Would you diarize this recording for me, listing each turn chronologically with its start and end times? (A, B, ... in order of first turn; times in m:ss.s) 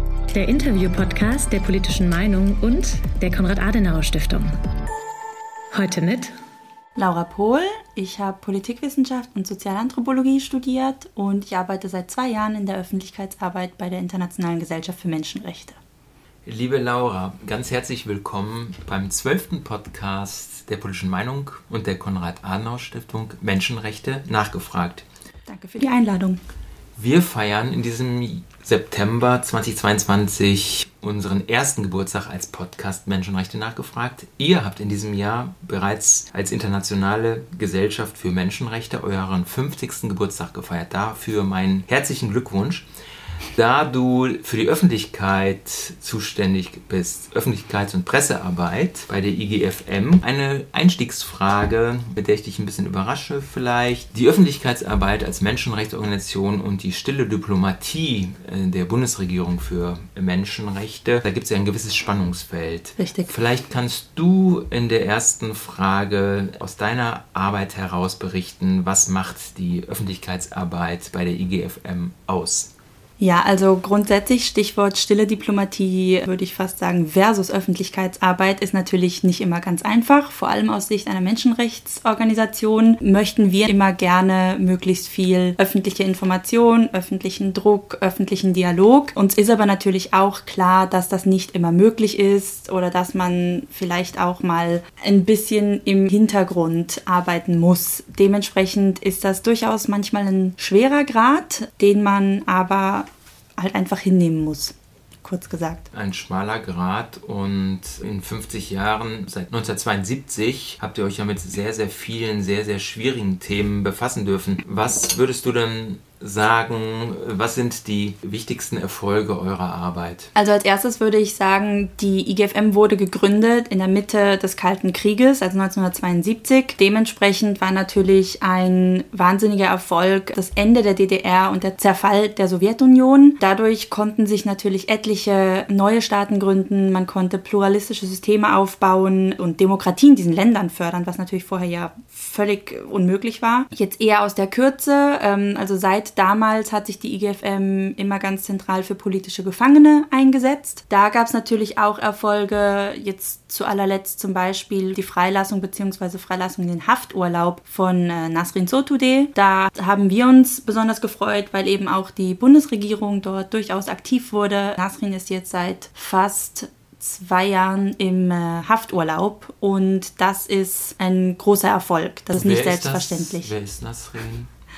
0:00.3-0:04.5 A
0:05.7-0:06.4 A
0:07.0-0:15.8 B
0:16.4-0:25.0 C
0:25.5-0:26.4 B
0:27.0-0:42.9 C
0:43.5-1:12.7 C
1:03.0-1:03.3 B
1:13.2-1:45.9 B
1:45.9-2:00.3 C
2:00.4-2:53.5 B
2:52.3-2:54.5 C